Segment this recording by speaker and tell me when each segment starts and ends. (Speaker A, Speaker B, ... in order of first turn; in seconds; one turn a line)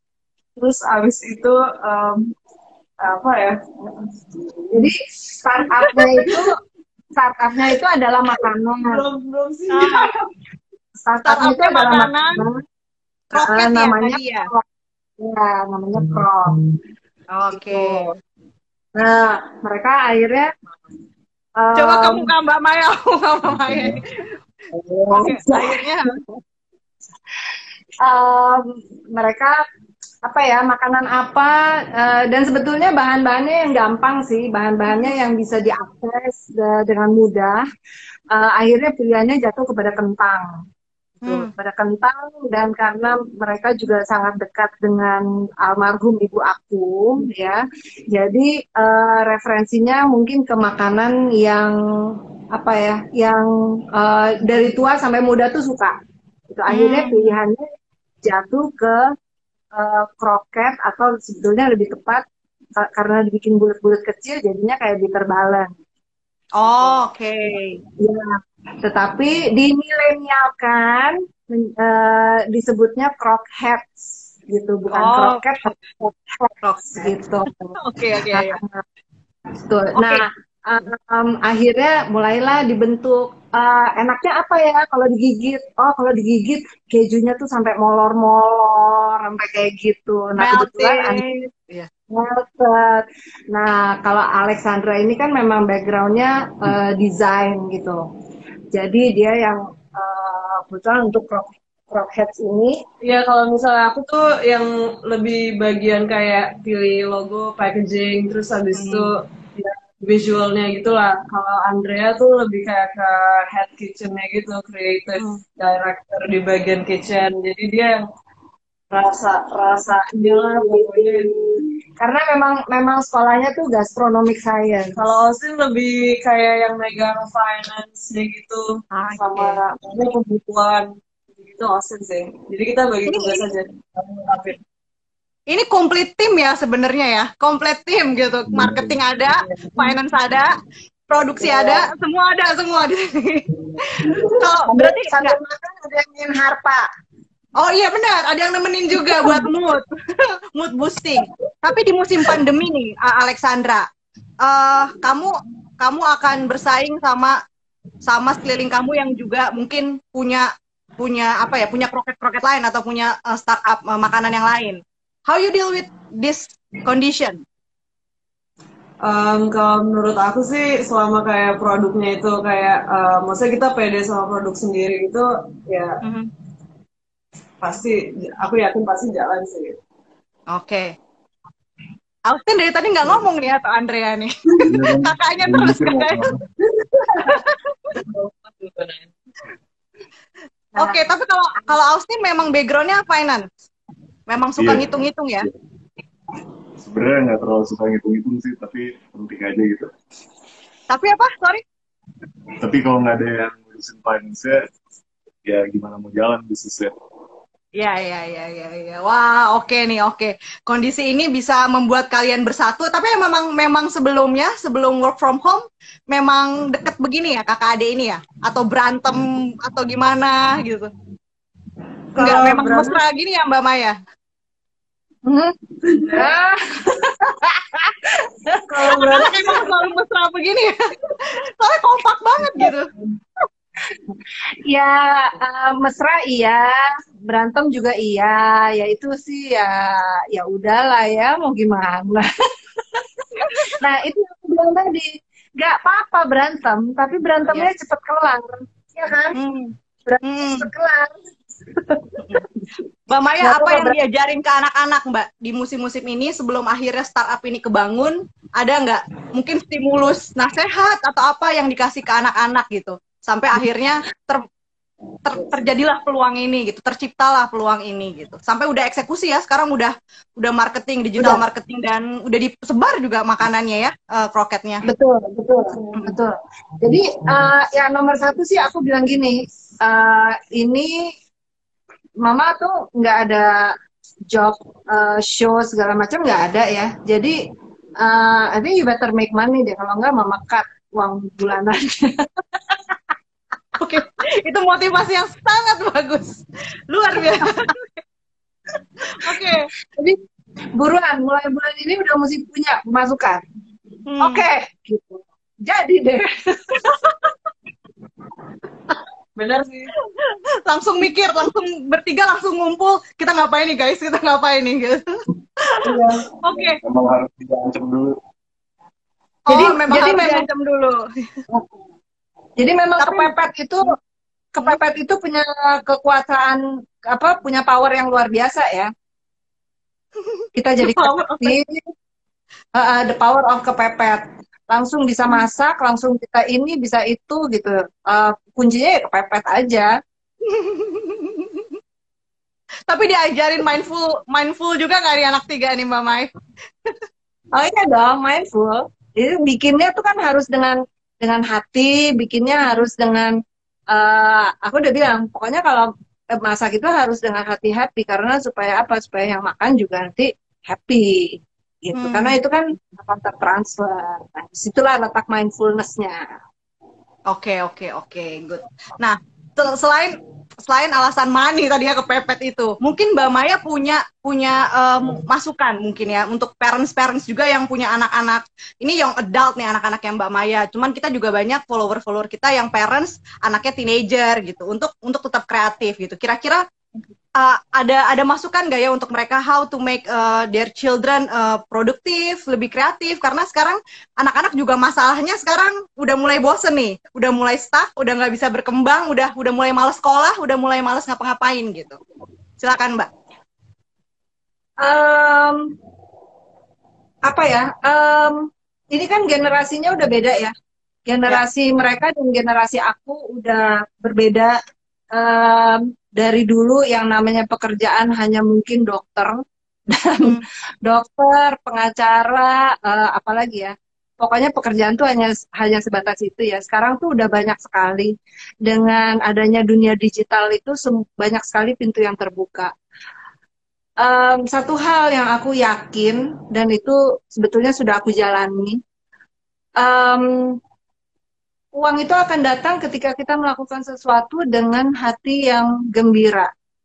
Speaker A: 0.6-2.3
Speaker A: 3.0-3.6
Speaker B: 4.7-6.5
Speaker A: 5.9-6.3
Speaker B: 7.2-9.0
Speaker A: 8.8-10.1
Speaker C: 9.7-10.1
Speaker B: 11.1-12.6
Speaker C: 11.2-12.4
Speaker B: 13.3-14.6
Speaker C: 13.3-14.5
Speaker B: 15.2-16.6
Speaker C: 17.3-18.1
Speaker A: 17.7-18.1
Speaker B: 18.9-20.5
Speaker B: 21.6-22.3
Speaker C: 21.8-24.0
Speaker D: 23.5-24.0
Speaker B: 24.8-25.6
Speaker C: 25.1-26.1
Speaker B: 28.0-29.6
Speaker B: 30.2-37.6
Speaker C: 34.9-35.1
Speaker B: 38.3-40.5
Speaker B: 41.2-56.0
Speaker C: 41.2-41.5
Speaker B: 56.5-57.6
Speaker C: 56.7-57.3
Speaker B: 58.2-59.1
Speaker B: 59.7-62.2
Speaker B: 62.8-65.7
Speaker C: 66.6-67.8
Speaker B: 66.7-67.0
Speaker B: 68.0-78.8
Speaker C: 74.9-75.8
Speaker C: 76.6-77.1
Speaker C: 77.8-78.6
Speaker B: 79.6-91.2
Speaker C: 80.0-80.2
Speaker C: 90.4-91.9
Speaker B: 92.1-98.0
Speaker B: 98.7-102.8
Speaker A: 103.0-118.1
Speaker C: 108.7-109.1
Speaker A: 118.9-121.3
Speaker B: 119.8-125.2
Speaker A: 124.9-134.6
Speaker C: 128.9-129.6
Speaker C: 133.1-133.5
Speaker C: 135.5-140.5
Speaker D: 138.5-138.9
Speaker A: 139.5-139.8
Speaker C: 141.1-145.3
Speaker B: 141.4-141.8
Speaker B: 144.0-146.8
Speaker C: 147.6-149.9
Speaker B: 149.0-149.4
Speaker C: 150.5-153.8
Speaker C: 154.4-157.4
Speaker C: 158.1-160.5
Speaker C: 161.0-167.4
Speaker A: 169.0-176.0
Speaker C: 176.0-176.3
Speaker A: 177.6-179.8
Speaker C: 180.5-180.9
Speaker C: 182.3-186.3
Speaker D: 184.7-186.4
Speaker C: 187.3-187.9
Speaker A: 187.9-189.1
Speaker B: 190.8-191.1
Speaker C: 190.8-193.4
Speaker C: 194.3-195.5
Speaker D: 194.6-194.9
Speaker D: 196.8-199.9
Speaker C: 200.9-201.6
Speaker D: 202.6-204.6
Speaker D: 205.4-206.9
Speaker C: 207.8-220.9
Speaker B: 222.1-223.0
Speaker C: 222.2-223.9
Speaker B: 225.2-227.9
Speaker B: 228.4-229.7
Speaker C: 228.9-232.9
Speaker B: 234.7-242.2
Speaker B: 243.3-249.4
Speaker C: 243.4-243.7
Speaker C: 249.3-250.7
Speaker B: 250.1-251.2
Speaker B: 251.8-252.4
Speaker C: 253.1-264.4
Speaker B: 253.4-254.0
Speaker C: 265.2-274.8
Speaker B: 271.2-271.4
Speaker B: 274.8-281.1
Speaker B: 282.2-283.7
Speaker B: 284.3-287.4
Speaker B: 288.0-292.3
Speaker C: 293.8-297.9
Speaker C: 299.2-299.7
Speaker B: 299.2-300.2
Speaker B: 300.8-303.4
Speaker C: 304.1-304.4
Speaker B: 304.2-306.8
Speaker C: 306.8-307.3
Speaker A: 309.4-309.9
Speaker C: 310.1-315.1
Speaker B: 315.8-316.2
Speaker C: 316.4-316.8
Speaker D: 316.8-318.1
Speaker C: 319.5-321.0
Speaker B: 319.5-320.5
Speaker B: 321.5-321.7
Speaker B: 322.6-323.9
Speaker C: 323.0-323.3
Speaker B: 324.5-328.9
Speaker B: 330.5-331.9
Speaker C: 330.8-331.6
Speaker B: 332.8-339.9
Speaker C: 340.4-341.6
Speaker C: 342.9-346.3
Speaker B: 347.5-353.4
Speaker B: 353.9-366.2
Speaker C: 361.9-362.4
Speaker C: 367.3-386.6
Speaker C: 387.4-402.0
Speaker C: 402.6-403.1
Speaker B: 404.8-405.7
Speaker B: 407.2-410.5
Speaker B: 411.1-414.6
Speaker B: 415.1-432.7
Speaker B: 434.0-438.8
Speaker B: 439.8-440.6
Speaker B: 441.7-446.5